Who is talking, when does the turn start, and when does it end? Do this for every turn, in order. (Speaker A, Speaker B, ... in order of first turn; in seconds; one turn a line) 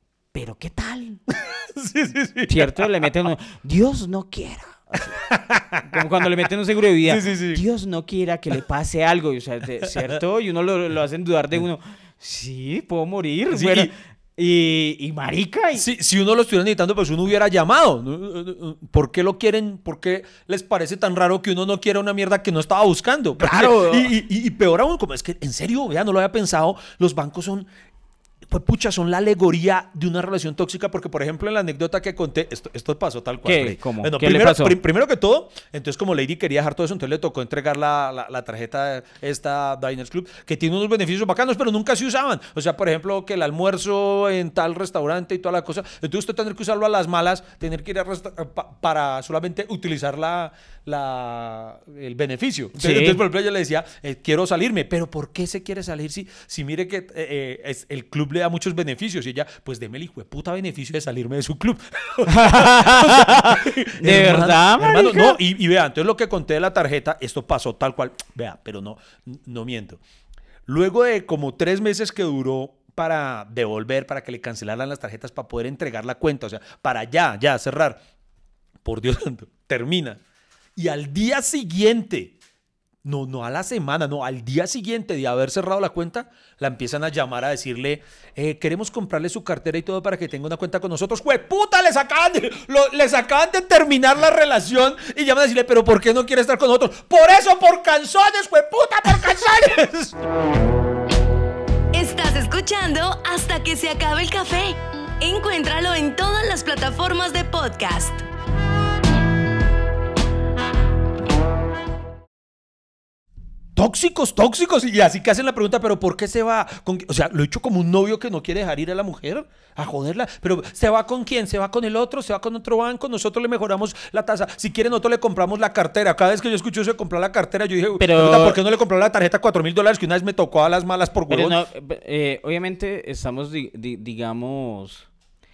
Speaker A: 0.3-1.2
Speaker B: 1.3-2.8
Speaker A: 2.5-5.2
Speaker B: 5.2-6.1
Speaker A: 5.8-15.9
Speaker B: 7.0-7.6
Speaker B: 9.8-10.2
Speaker B: 13.5-13.9
Speaker B: 15.8-27.7
Speaker A: 23.4-24.1
Speaker B: 28.5-70.0
Speaker A: 33.4-34.8
Speaker A: 52.8-53.2
Speaker A: 62.3-65.3
Speaker B: 70.7-78.0
Speaker B: 78.8-80.2
Speaker B: 80.8-82.3
Speaker B: 83.0-100.2
Speaker C: 101.9-108.2
Speaker B: 113.8-131.6
Speaker A: 128.0-128.6
Speaker A: 131.3-135.1